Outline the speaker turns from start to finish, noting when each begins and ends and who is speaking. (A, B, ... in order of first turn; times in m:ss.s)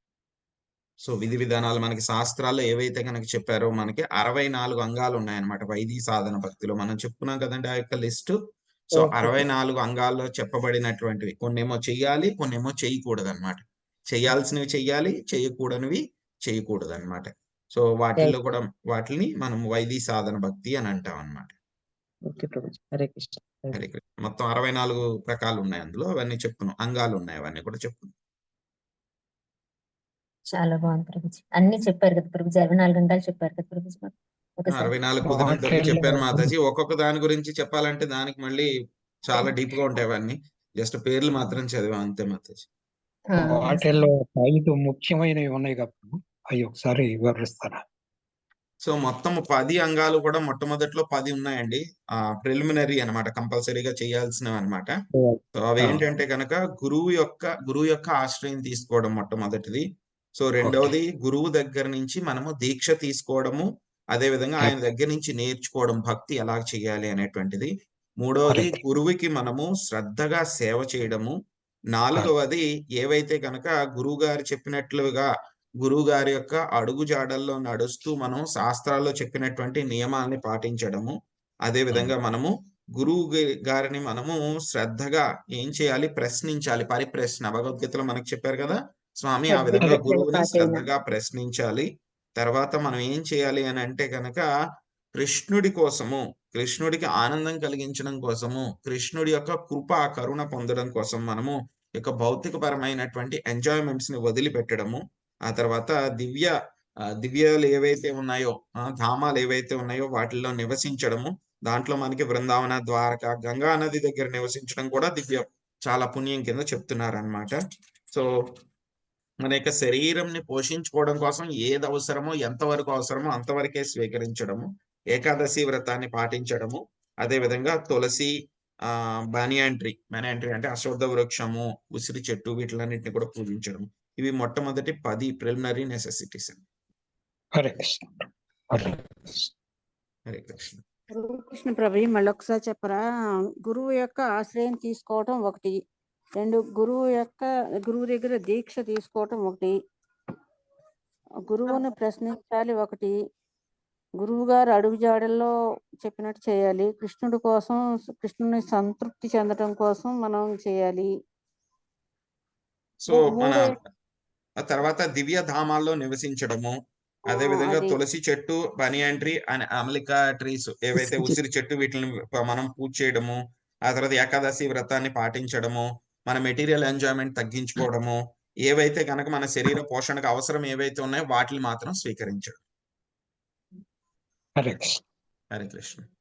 0:01.0-0:08.4 A
0:08.9-0:21.5 A
0:08.9-0:09.4 B
0:22.3-0:23.8 B
0:23.7-0:28.1 A
0:30.5-0:34.9 C
0:34.7-0:38.7 A
0:35.2-0:36.5 D
0:39.2-0:42.6 A
0:43.3-0:44.0 C
0:43.4-0:47.8 D
0:48.8-0:51.8 A
0:52.4-0:54.9 A
0:55.1-0:56.0 D
0:55.6-0:59.8 A
1:00.4-1:07.7 A
1:00.6-1:00.9 D
1:08.2-1:11.3 A
1:08.5-1:08.8 D
1:11.9-1:15.3 A
1:15.8-1:21.1 A
1:21.6-1:31.9 A
1:29.5-1:30.8 C
1:29.8-1:30.0 D
1:32.4-1:34.4 A
1:35.2-1:46.5 A
1:47.2-1:57.5 A
1:59.4-2:08.3 A
2:08.9-2:16.6 A
2:17.6-2:19.5 D
2:20.3-2:20.8 A
2:21.1-2:23.0 E
2:23.6-2:25.8 E
2:26.4-2:29.7 E
2:31.4-2:33.1 E
2:34.2-2:41.1 E
2:43.0-2:43.8 A
2:43.1-2:43.7 E
2:44.6-2:46.7 A
2:47.3-2:53.4 A
2:47.3-2:48.0 E
2:51.0-2:51.3 D
2:53.9-3:02.6 A
3:04.6-3:05.0 D
3:05.5-3:06.0 A